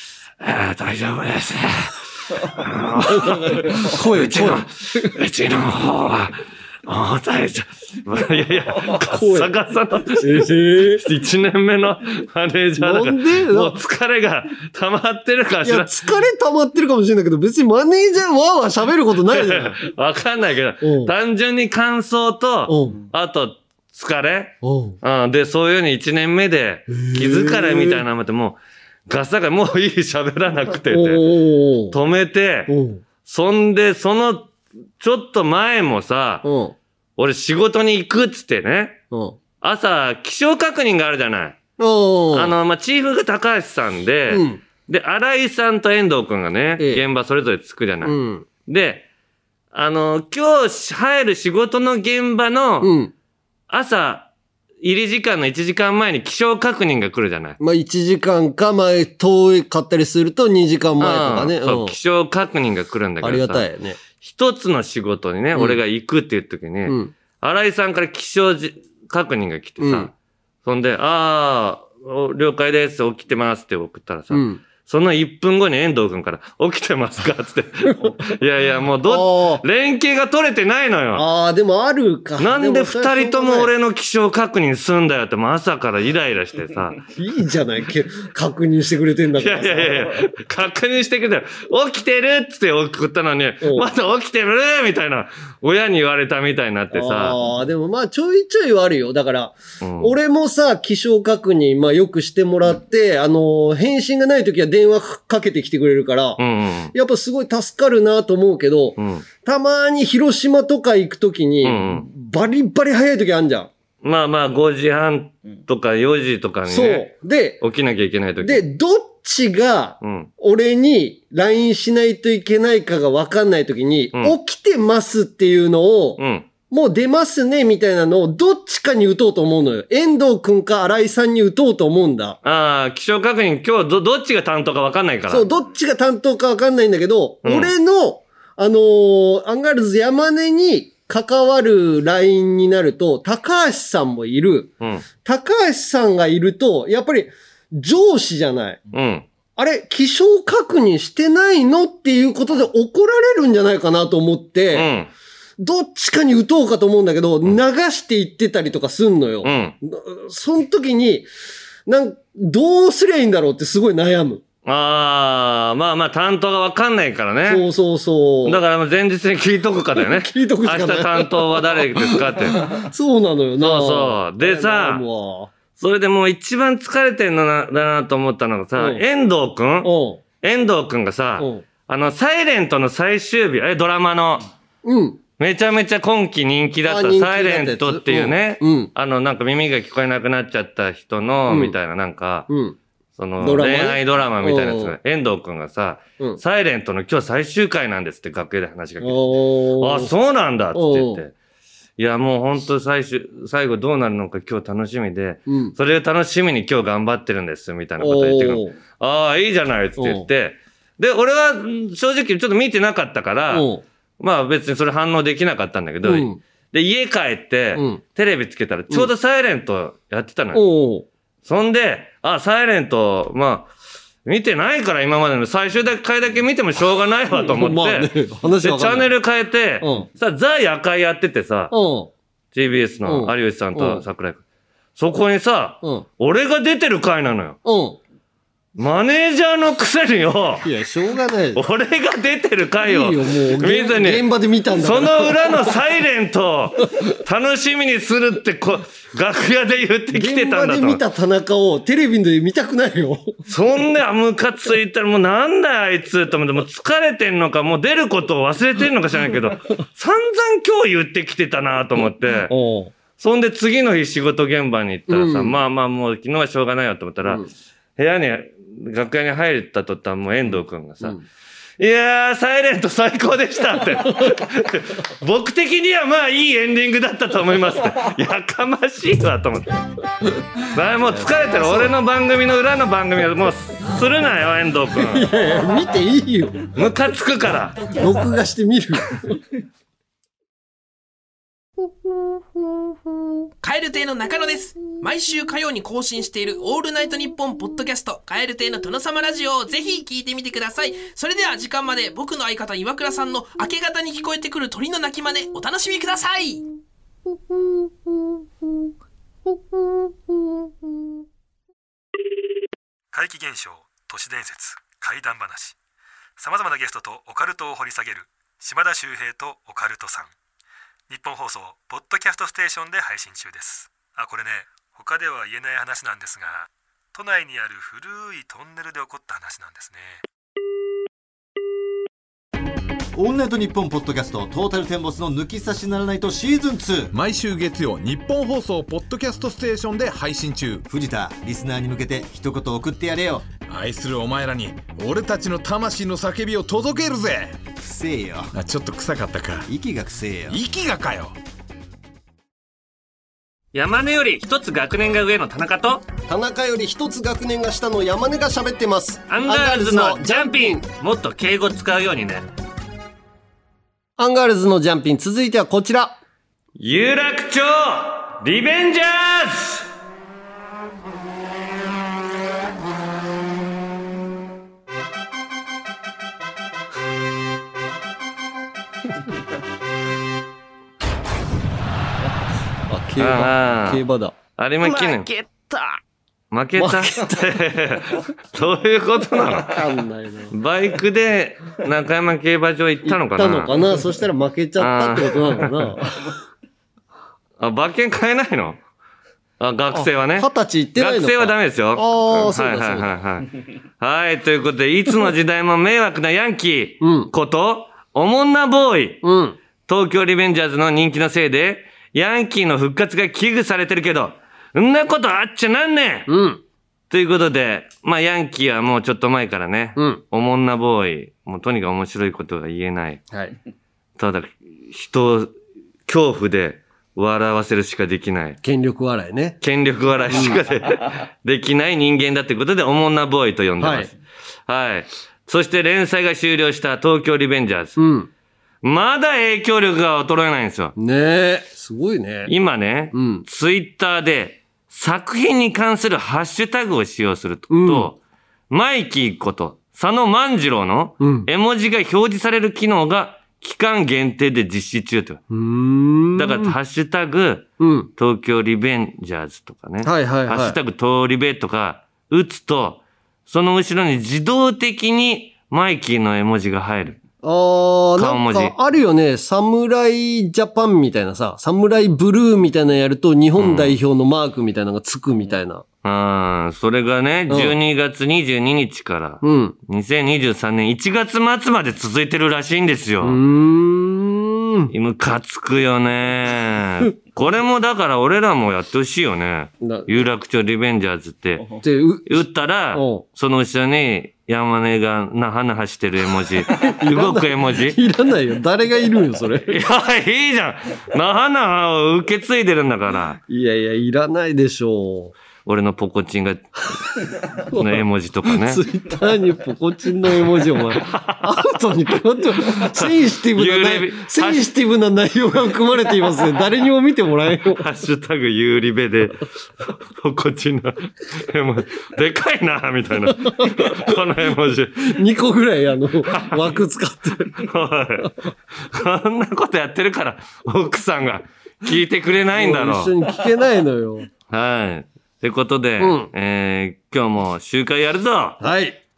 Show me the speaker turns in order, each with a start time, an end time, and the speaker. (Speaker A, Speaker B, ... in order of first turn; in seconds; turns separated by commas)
Speaker A: 0.4-15.9, Speaker B: 3.1-5.1, Speaker B: 8.8-9.5, Speaker B: 10.1-11.0, Speaker B: 12.8-13.8, Speaker B: 15.6-19.8, Speaker A: 19.3-31.3, Speaker B: 20.8-21.1, Speaker B: 22.7-23.0, Speaker B: 24.6-25.0, Speaker B: 26.9-28.0, Speaker B: 30.9-32.0, Speaker A: 31.9-32.7, Speaker B: 32.7-33.0, Speaker A: 33.2-36.5, Speaker B: 36.4-36.7, Speaker A: 37.2-39.0, Speaker B: 39.1-39.4, Speaker A: 39.6-41.6, Speaker B: 41.8-42.5, Speaker A: 42.3-49.0, Speaker B: 44.3-44.6, Speaker B: 46.8-47.0, Speaker B: 48.0-48.5, Speaker A: 49.7-52.9, Speaker B: 52.8-53.1, Speaker A: 53.7-54.3, Speaker A: 54.8-57.6, Speaker B: 57.6-62.0, Speaker A: 61.0-70.1, Speaker B: 63.2-64.0, Speaker B: 65.5-65.8, Speaker B: 66.8-67.1, Speaker B: 69.8-70.1, Speaker A: 70.6-81.2, Speaker B: 74.3-74.6, Speaker B: 79.0-79.6, Speaker B: 81.1-83.7, Speaker A: 82.4-87.0, Speaker B: 87.2-90.2, Speaker A: 89.3-97.4, Speaker B: 93.6-93.9, Speaker B: 96.9-106.4, Speaker A: 99.8-100.1, Speaker A: 106.4-106.9, Speaker B: 106.9-113.7, Speaker A: 109.0-109.2, Speaker A: 111.6-112.0, Speaker A: 114.0-117.1, Speaker B: 116.7-117.6, Speaker A: 117.6-118.6, Speaker B: 118.4-132.4, Speaker A: 120.0-120.3, Speaker A: 126.2-126.5, Speaker A: 132.4-135.5, Speaker B: 135.3-148.8, Speaker A: 137.4-137.7, Speaker A: 148.9-149.2, Speaker B: 149.6-154.9, Speaker A: 154.7-155.1, Speaker B: 155.6-161.3, Speaker A: 159.4-159.7, Speaker B: 161.8-164.4, Speaker A: 164.6-167.7, Speaker B: 167.5-168.6, Speaker A: 168.4-172.8, Speaker B: 169.9-175.5, Speaker A: 173.6-175.0, Speaker A: 175.8-184.5, Speaker B: 178.8-179.0, Speaker B: 179.8-180.2, Speaker B: 181.4-181.6, Speaker B: 184.8-185.2, Speaker A: 185.4-192.5, Speaker B: 186.8-188.9, Speaker B: 191.5-191.7, Speaker B: 192.5-192.8, Speaker A: 193.2-201.3, Speaker B: 193.4-194.9, Speaker B: 199.0-200.1, Speaker B: 200.7-201.2, Speaker A: 202.0-213.7, Speaker B: 205.5-205.7, Speaker B: 208.0-208.7, Speaker B: 210.0-210.2, Speaker B: 213.5-213.8, Speaker A: 214.2-220.6, Speaker B: 216.0-216.4, Speaker B: 217.7-218.0, Speaker B: 220.5-221.1, Speaker A: 221.4-223.7, Speaker A: 224.2-231.7, Speaker B: 227.3-229.1, Speaker B: 229.8-230.1, Speaker B: 231.7-232.1, Speaker A: 232.5-234.4, Speaker B: 233.0-234.0, Speaker A: 234.9-237.6, Speaker B: 237.6-238.0, Speaker A: 238.8-240.7, Speaker B: 240.6-241.6, Speaker A: 241.5-251.0, Speaker B: 242.8-245.7, Speaker B: 250.1-253.3, Speaker A: 253.5-262.5, Speaker B: 262.5-262.9, Speaker A: 263.2-267.4, Speaker B: 265.1-265.6, Speaker B: 267.2-267.5, Speaker A: 268.0-271.2, Speaker A: 271.8-279.8, Speaker A: 280.7-285.3, Speaker B: 281.3-281.9, Speaker B: 284.9-286.7, Speaker A: 286.7-287.8, Speaker B: 287.9-289.4, Speaker C: 293.6-306.6, Speaker D: 313.1-315.8, Speaker D: 316.4-320.3, Speaker D: 321.1-330.2, Speaker E: 333.1-337.1, Speaker F: 337.1-340.8, Speaker E: 340.9-343.4, Speaker F: 343.7-347.6, Speaker E: 347.8-348.5, Speaker F: 348.5-349.6, Speaker E: 349.6-350.6, Speaker F: 350.5-351.4, Speaker A: 353.7-356.0, Speaker B: 356.3-360.8, Speaker A: 359.3-362.5, Speaker B: 364.2-366.2, Speaker A: 366.8-369.9, Speaker B: 382.9-384.4, Speaker A: 383.2-384.0, Speaker A: 384.6-385.3, Speaker B: 384.9-385.9, Speaker A: 386.5-389.9, Speaker B: 386.8-387.4, Speaker B: 389.6-390.5, Speaker A: 390.5-393.8, Speaker B: 393.0-396.4, Speaker A: 394.8-395.9, Speaker A: 397.6-398.8, Speaker A: 399.6-409.2, Speaker B: 399.9-403.1, Speaker B: 407.0-407.3, Speaker B: 409.2-409.6, Speaker A: 409.8-416.3, Speaker B: 416.3-416.6, Speaker A: 417.1-423.2, Speaker B: 419.9-420.2, Speaker B: 423.3-423.6, Speaker A: 424.2-425.5, Speaker A: 426.1-428.6, Speaker B: 428.6-429.6, Speaker A: 429.6-434.1, Speaker B: 430.3-430.6, Speaker B: 433.8-434.1, Speaker A: 434.7-438.0, Speaker B: 438.0-438.3, Speaker A: 438.8-440.9, Speaker B: 440.9-442.5, Speaker A: 442.5-448.2, Speaker B: 443.1-443.4, Speaker B: 447.7-448.1, Speaker A: 448.7-455.4, Speaker B: 451.2-451.5, Speaker B: 455.5-456.8, Speaker A: 456.4-467.2, Speaker B: 457.8-458.1, Speaker B: 460.0-460.8, Speaker B: 467.4-475.8, Speaker A: 468.2-468.7, Speaker A: 473.6-474.0, Speaker A: 476.0-483.4, Speaker B: 477.5-477.8, Speaker B: 479.4-479.7, Speaker B: 483.2-484.9, Speaker A: 484.9-498.0, Speaker B: 489.8-490.1, Speaker B: 491.8-493.2, Speaker B: 496.7-499.8, Speaker A: 499.7-503.4, Speaker B: 503.5-505.3, Speaker A: 505.6-506.8, Speaker A: 507.7-508.8, Speaker B: 507.7-517.8, Speaker A: 511.0-511.5, Speaker A: 512.7-514.6, Speaker A: 517.8-519.4, Speaker A: 520.1-525.1, Speaker B: 523.5-524.0, Speaker B: 525.0-527.6, Speaker A: 526.3-526.7, Speaker A: 527.6-533.1, Speaker B: 532.5-534.3, Speaker A: 534.5-538.6, Speaker B: 536.0-536.3, Speaker B: 538.6-539.0